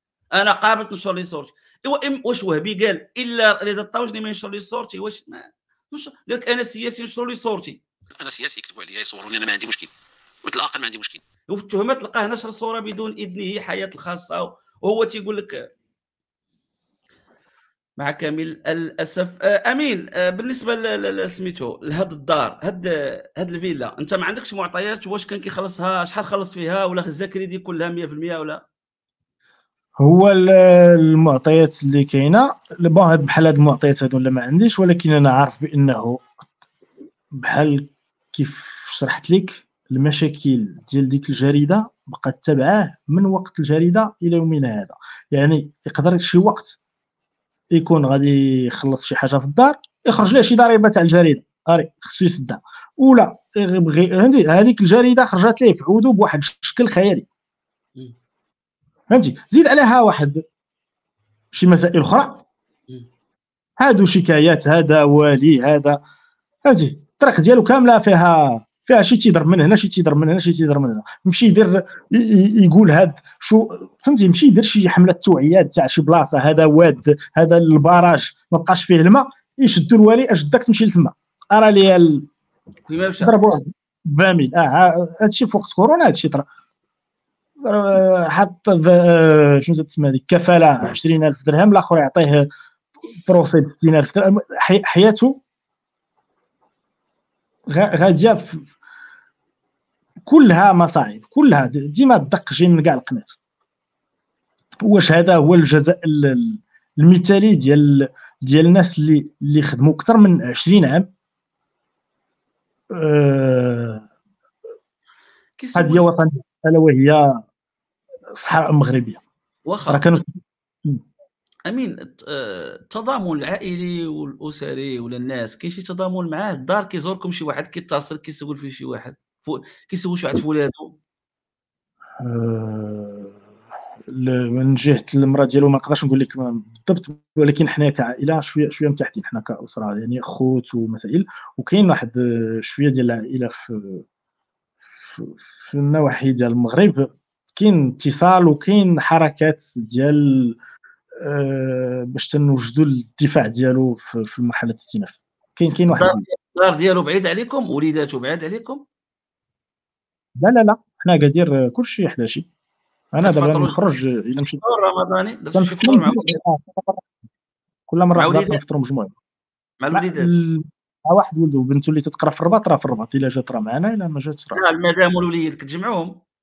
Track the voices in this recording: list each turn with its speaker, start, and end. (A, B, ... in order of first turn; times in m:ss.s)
0:00.3-0:07.8 A
0:08.2-0:09.9 B
0:10.4-0:11.2 B
0:11.5-0:15.6 A
0:18.0-0:28.6 A
0:30.0-0:36.2 C
0:37.3-0:46.8 C
0:47.7-0:57.3 C
0:59.1-1:00.4 C
1:01.5-1:02.4 C
1:03.8-1:06.0 C
1:06.6-1:22.3 C
1:22.9-1:23.4 A
1:23.2-1:26.4 C
1:27.6-1:32.5 C
1:33.2-1:35.4 C
1:37.7-1:38.7 C
1:40.2-1:43.4 C
1:44.8-1:51.1 C
1:52.9-1:54.0 C
1:55.6-1:56.1 A
1:55.7-1:57.2 C
1:58.3-1:59.2 C
1:59.7-2:00.2 A
1:59.9-2:01.0 C
2:01.7-2:11.0 A
2:12.2-2:13.4 C
2:14.1-2:24.0 C
2:24.9-2:30.6 C
2:31.2-2:36.2 C
2:35.9-2:38.8 A
2:40.4-2:42.5 C
2:43.1-2:44.6 C
2:43.2-2:43.8 A
2:44.6-2:46.4 A
2:45.5-2:47.1 C
2:47.9-2:49.1 C
2:48.1-2:48.6 A
2:49.8-2:50.3 A
2:49.9-2:54.6 C
2:54.5-2:56.1 A